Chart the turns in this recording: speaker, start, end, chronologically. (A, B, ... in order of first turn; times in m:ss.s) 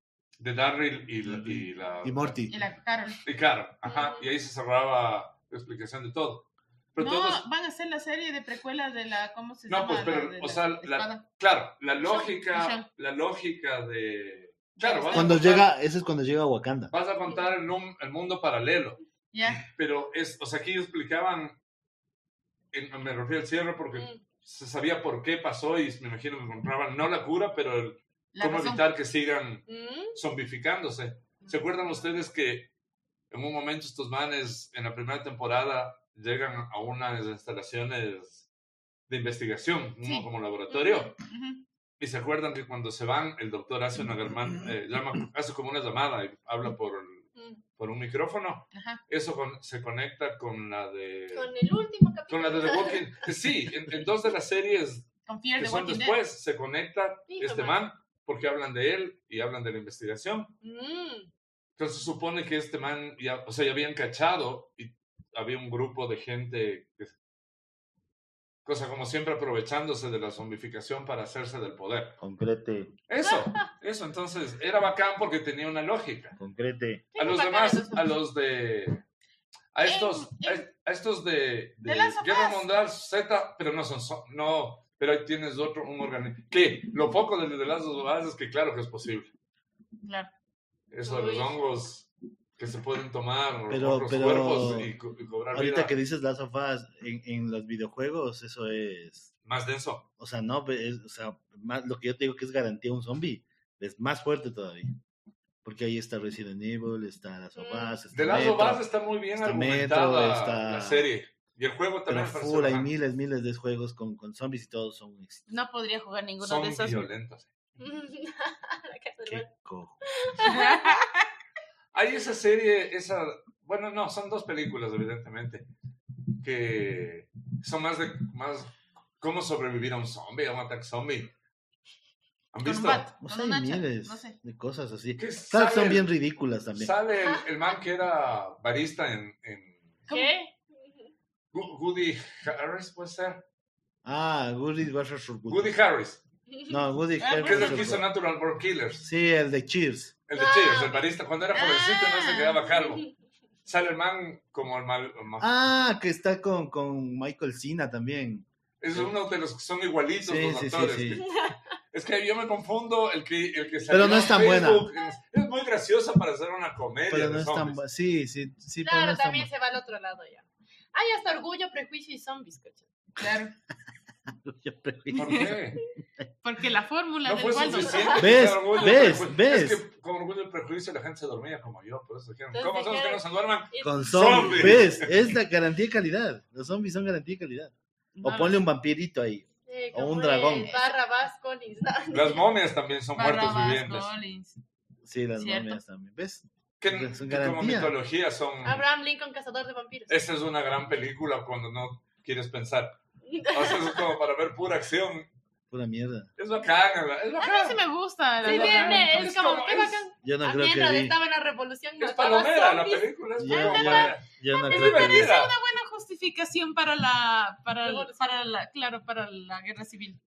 0:00.4-0:02.5 A
0:01.2-0:02.5 B
0:02.5-0:03.2 C
0:03.2-0:07.4 A
0:03.8-0:04.3 D
0:07.0-0:11.2 C
0:09.7-0:15.7 A
0:12.0-0:12.3 D
0:12.5-0:12.9 C
0:14.8-0:15.5 C
0:15.1-0:16.9 B
0:16.9-0:21.6 A
0:19.3-0:19.7 C
0:22.7-0:32.7 A
0:23.9-0:24.2 D
0:28.3-0:28.8 C
0:29.7-0:30.2 D
0:33.3-0:38.5 A
0:39.1-0:41.1 A
0:40.0-0:40.3 C
0:40.7-0:41.1 D
0:41.2-0:41.6 C
0:42.0-0:51.5 A
0:48.7-0:49.0 C
0:51.3-0:53.1 D
0:52.3-1:00.5 A
0:55.3-0:56.2 C
0:57.3-0:57.8 D
1:00.6-1:01.3 D
1:01.8-1:07.2 A
1:08.6-1:12.2 A
1:12.2-1:12.9 B
1:13.1-1:16.4 A
1:13.2-1:13.7 D
1:16.4-1:17.0 B
1:17.1-1:18.1 D
1:17.2-1:19.0 A
1:19.7-1:29.3 A
1:19.8-1:20.7 C
1:21.8-1:22.7 C
1:30.0-1:30.3 C
1:30.9-1:36.0 A
1:31.0-1:31.6 D
1:33.7-1:34.9 B
1:35.5-1:39.3 B
1:39.4-1:40.1 A
1:40.2-1:45.0 B
1:45.6-1:48.8 B
1:47.6-1:48.0 D
1:48.1-1:52.9 A
1:49.4-1:51.1 B
1:52.1-1:55.5 B
1:55.5-1:57.1 C
1:56.4-1:57.5 A
1:57.8-1:59.5 D
1:59.3-2:00.0 B
2:00.2-2:01.0 D
2:00.4-2:01.3 C
2:01.9-2:05.7 A
2:06.4-2:11.3 A
2:12.5-2:13.1 A
2:12.6-2:14.4 C
2:13.2-2:16.9 B
2:15.2-2:16.1 A
2:16.7-2:19.8 A
2:20.1-2:20.3 C
2:20.1-2:21.1 D
2:21.5-2:23.4 A
2:24.0-2:25.7 B
2:25.5-2:26.2 A
2:26.5-2:26.8 D
2:26.7-2:28.1 B
2:27.2-2:27.9 C
2:27.4-2:29.0 A
2:29.0-2:30.1 B
2:30.3-2:33.0 A
2:30.3-2:31.1 D
2:31.5-2:32.6 C
2:32.7-2:33.1 D
2:33.7-2:35.5 A
2:35.4-2:39.1 B
2:38.8-2:41.4 A
2:40.2-2:41.2 B
2:41.1-2:41.6 D
2:41.9-2:47.8 A
2:43.9-2:44.9 B
2:44.0-2:45.1 D
2:47.1-2:49.5 B
2:48.8-2:52.9 D
2:53.2-2:53.5 C
2:54.3-2:55.8 B
2:55.1-2:55.8 A
2:55.1-2:55.5 C
2:56.4-2:58.2 C
2:57.2-3:05.3 A
2:57.8-2:58.4 D
2:58.2-2:59.8 B
3:02.5-3:04.9 D
3:03.8-3:10.7 B
3:08.2-3:08.6 C
3:09.6-3:12.5 D
3:10.5-3:11.0 C
3:12.1-3:14.1 A
3:13.2-3:14.6 C
3:15.0-3:18.0 B
3:15.4-3:15.8 C
3:16.8-3:18.8 A
3:18.6-3:20.2 D
3:20.1-3:25.3 A
3:23.3-3:24.0 D
3:25.7-3:26.3 B
3:26.4-3:27.8 A
3:27.4-3:29.3 C
3:28.4-3:30.1 A
3:28.4-3:33.1 D
3:30.2-3:31.2 B
3:32.0-3:35.5 A
3:33.4-3:35.3 B
3:33.5-3:40.2 C
3:37.8-3:38.4 D